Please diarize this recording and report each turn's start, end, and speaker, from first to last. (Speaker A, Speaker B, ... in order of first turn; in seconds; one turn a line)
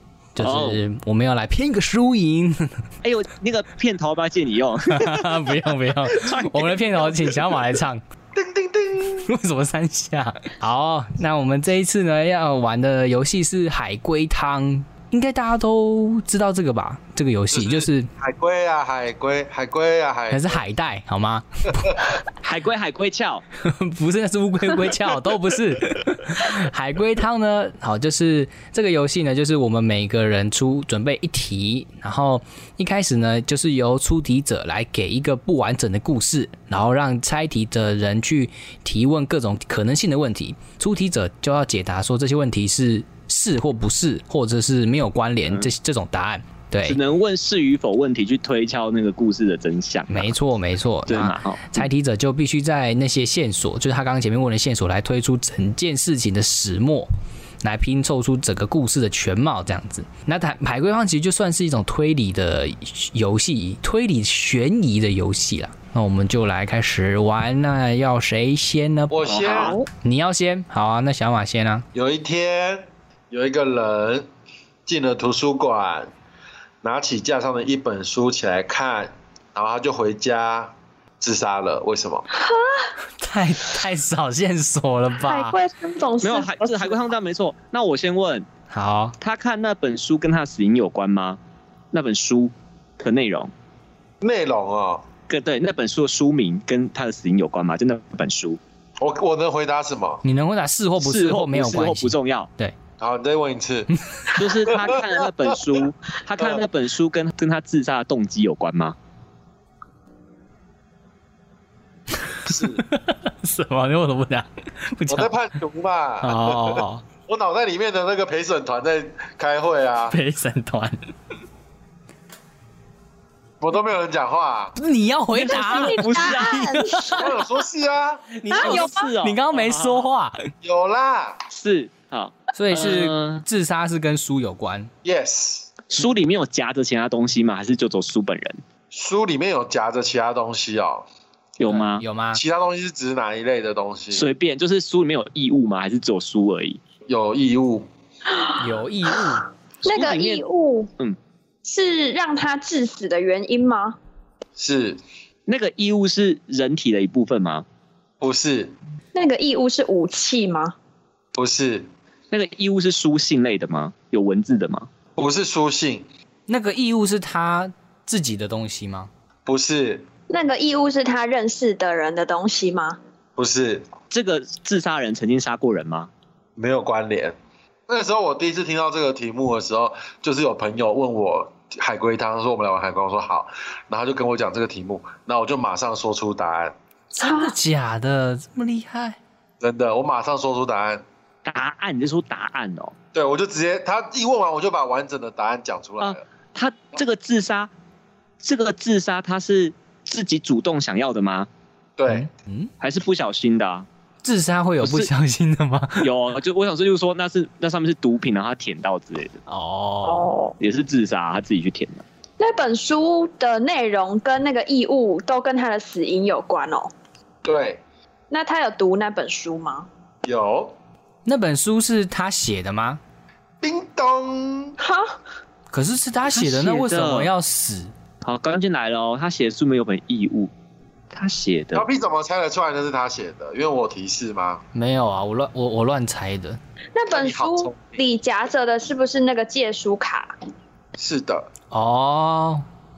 Speaker A: 0.3-2.8
Speaker B: 0.4-0.8
Speaker B: 3.0-7.7
Speaker A: 5.0-8.0
Speaker C: 8.3-9.3
Speaker A: 9.3-18.1
Speaker C: 17.5-20.6
Speaker A: 20.3-22.0
Speaker B: 22.4-23.4
Speaker A: 23.6-47.0
Speaker B: 46.9-50.3
Speaker A: 50.1-57.1
Speaker B: 51.1-51.9
Speaker A: 57.6-69.2
Speaker C: 69.1-69.8
Speaker B: 69.2-69.8
Speaker A: 70.0-71.8
Speaker C: 71.9-74.3
Speaker C: 74.9-76.1
Speaker C: 76.8-82.2
Speaker D: 82.3-82.9
Speaker A: 83.2-85.6
Speaker D: 85.2-87.0
Speaker B: 86.2-88.5
Speaker A: 88.7-89.2
Speaker B: 89.2-91.4
Speaker B: 91.9-93.5
Speaker C: 94.2-95.0
Speaker B: 95.3-98.6
Speaker C: 99.0-100.2
Speaker A: 100.2-102.8
Speaker B: 101.0-102.5
Speaker C: 103.0-103.9
Speaker B: 104.4-109.0
Speaker C: 104.7-105.1
Speaker A: 112.2-115.3
Speaker C: 112.5-112.8
Speaker C: 115.1-120.2
Speaker A: 116.2-117.0
Speaker A: 120.1-121.0
Speaker C: 123.6-124.8
Speaker A: 124.8-127.2
Speaker B: 125.4-126.8
Speaker D: 125.5-127.4
Speaker C: 127.1-128.3
Speaker B: 128.4-130.1
Speaker A: 128.5-130.3
Speaker D: 128.5-129.1
Speaker C: 130.6-131.4
Speaker B: 131.5-133.4
Speaker A: 132.5-134.9
Speaker C: 135.0-135.7
Speaker B: 135.9-138.6
Speaker C: 138.9-141.1
Speaker B: 141.6-142.0
Speaker A: 141.7-142.4
Speaker C: 142.3-144.3
Speaker B: 144.1-146.8
Speaker C: 147.1-147.9
Speaker D: 148.3-148.6
Speaker A: 148.6-149.5
Speaker D: 149.8-150.9
Speaker B: 149.9-150.4
Speaker D: 151.7-154.0
Speaker C: 154.6-155.0
Speaker B: 155.5-157.7
Speaker C: 158.2-158.7
Speaker D: 159.2-160.8
Speaker C: 161.3-161.9
Speaker B: 162.3-164.9
Speaker C: 165.2-166.1
Speaker A: 166.5-169.1
Speaker C: 169.5-170.1
Speaker D: 170.3-173.0
Speaker C: 173.4-173.9
Speaker B: 174.1-176.1
Speaker C: 176.6-177.4
Speaker C: 177.9-186.8
Speaker A: 187.1-189.2
Speaker D: 187.2-187.6
Speaker C: 189.6-191.0
Speaker B: 191.5-192.9
Speaker C: 193.1-196.2
Speaker B: 196.0-197.7
Speaker B: 198.4-201.5
Speaker C: 202.0-202.3
Speaker A: 202.1-202.7
Speaker B: 202.8-203.9
Speaker A: 204.2-206.1
Speaker B: 204.8-205.1
Speaker B: 206.0-209.4
Speaker A: 209.5-210.3
Speaker D: 210.0-210.6
Speaker B: 210.6-212.0
Speaker D: 212.4-216.9
Speaker C: 217.4-217.8
Speaker D: 218.3-219.9
Speaker C: 220.2-220.7
Speaker A: 221.2-223.0
Speaker C: 223.6-224.8
Speaker D: 224.8-225.2
Speaker A: 225.7-227.9
Speaker B: 226.3-227.3
Speaker B: 228.2-230.5
Speaker B: 231.1-231.9
Speaker C: 231.7-234.6
Speaker A: 234.7-236.6
Speaker D: 236.9-240.3
Speaker C: 237.1-238.0
Speaker C: 241.0-241.5
Speaker A: 241.7-242.7